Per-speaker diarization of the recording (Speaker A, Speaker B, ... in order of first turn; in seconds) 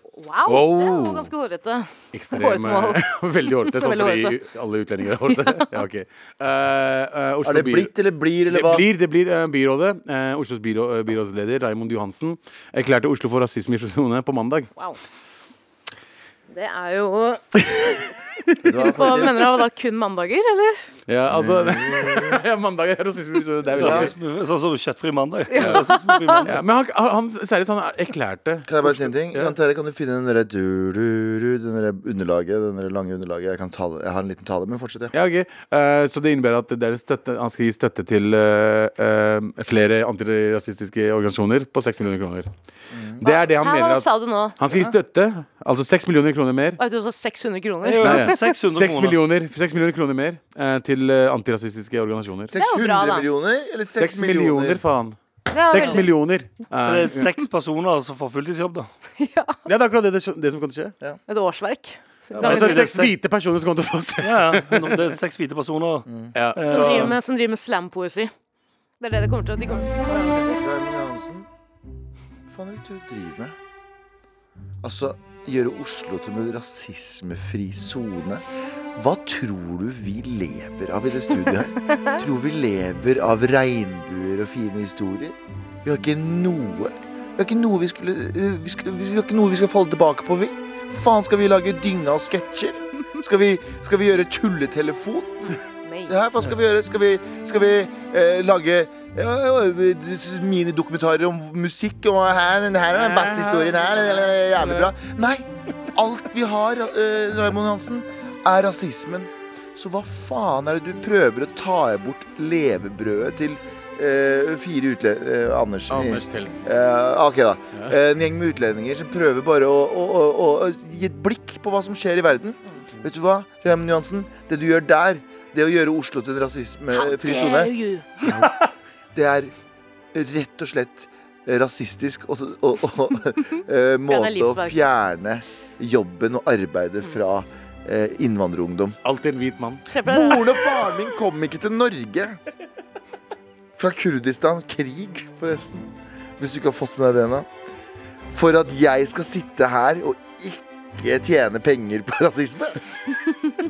Speaker A: 0.2-3.0, 3.6-4.4, 5.3-5.7, 16.5-18.0, 18.8-20.8, 25.5-26.5, 43.2-44.6, 46.8-48.4, 52.5-53.3, 55.5-56.0, 59.2-59.6, 61.3-62.9, 66.7-68.3, 69.0-70.7, 95.4-96.1, 126.9-128.3, 134.1-134.8, 139.9-140.7
Speaker B: 0.5-1.3, 2.1-7.9, 8.5-14.7, 21.1-24.1, 25.6-25.9, 26.4-29.5, 35.1-42.5, 43.2-44.1, 44.6-46.8, 48.0-52.5, 53.9-57.3, 59.6-60.9, 62.4-65.0, 66.3-67.2, 102.9-104.9, 115.9-116.7, 139.0-139.8
Speaker C: 7.4-8.8, 18.6-19.4, 21.3-22.4, 23.8-24.1, 28.7-35.1, 42.9-43.2, 52.5-54.8, 70.6-71.5, 72.5-73.5, 74.8-78.4, 78.9-128.6, 129.1-129.5, 130.1-139.0, 140.0-142.4, 143.8-147.5, 148.3-152.8
Speaker D: 23.7-26.6, 47.8-49.2, 56.8-58.9, 62.4-63.1, 64.2-67.2